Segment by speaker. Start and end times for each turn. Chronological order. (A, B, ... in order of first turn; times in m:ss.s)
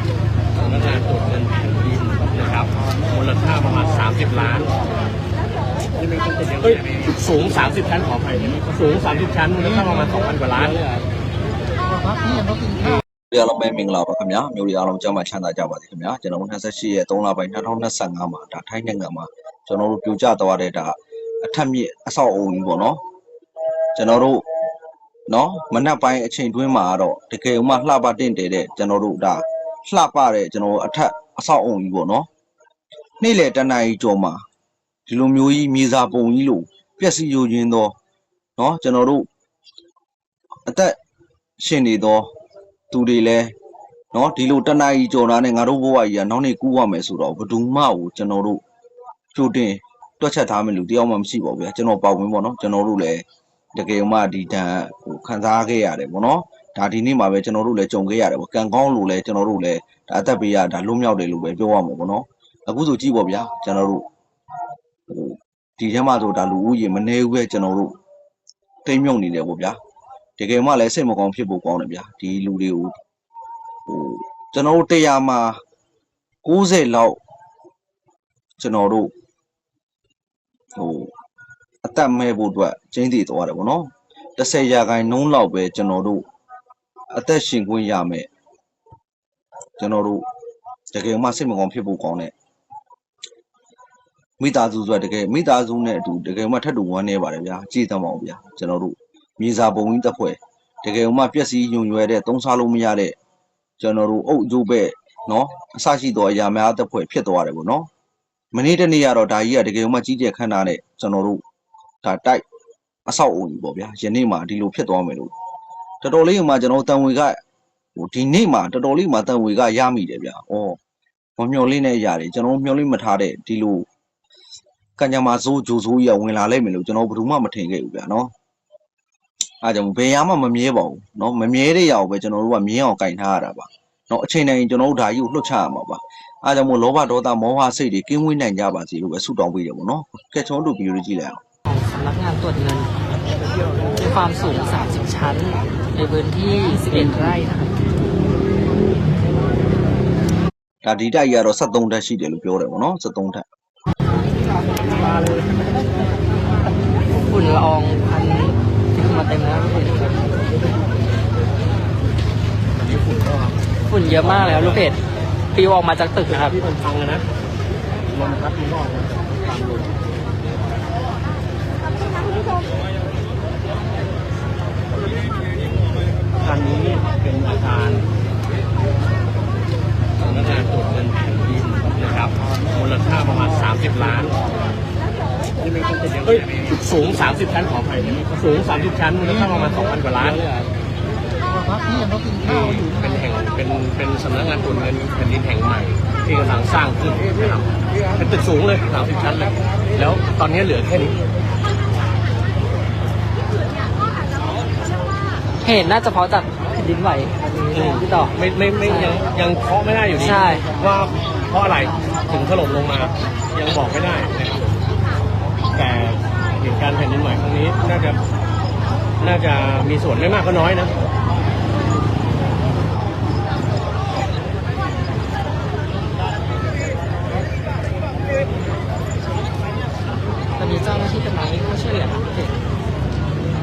0:00.5-0:04.7 A
0:06.0-0:11.1 A
0:13.3-0:23.0 B
0:24.0-0:24.4 B
0:25.3-0:32.3 B
0:33.2-0:34.4 B
0:35.1-0:37.9 B
0:38.6-0:39.3 B
0:40.7-0:41.0 B
0:41.6-0:42.3 B
0:42.9-0:43.5 B
0:44.1-0:48.6 B
0:49.3-1:04.0 B
1:05.1-1:08.0 B
1:08.8-1:09.8 B
1:10.4-1:13.0 B
1:13.9-1:15.6 B
1:16.4-1:17.2 B
1:18.6-1:19.1 B
1:20.8-1:21.1 B
1:21.8-1:26.2 B
1:27.1-1:28.3 B
1:29.8-1:30.3 B
1:30.9-1:32.3 B
1:34.4-1:43.2 B
1:43.8-1:47.9 B
1:48.5-1:51.4 B
1:52.0-1:52.4 B
1:53.1-1:55.3 B
1:56.0-1:57.4 B
1:58.0-2:00.8 B
2:01.4-2:03.9 B
2:05.0-2:08.3 B
2:09.6-2:21.4 B
2:21.6-2:23.0 C
2:24.0-2:27.9 C
2:30.8-2:33.4 B
2:37.2-2:40.2 C
2:42.8-2:43.6 A
2:43.9-2:45.0 C
2:44.1-2:44.8 A
2:45.5-2:46.6 C
2:46.3-2:47.3 A
2:48.1-2:49.1 A
2:56.4-2:58.1 A
3:00.2-3:04.4 A
3:05.6-3:10.7 A
3:12.4-3:21.2 A
3:25.6-3:29.2 C
3:27.7-3:34.7 A
3:30.2-3:30.7 C
3:35.8-3:38.2 A
3:39.2-3:40.9 A
3:50.6-3:52.6 C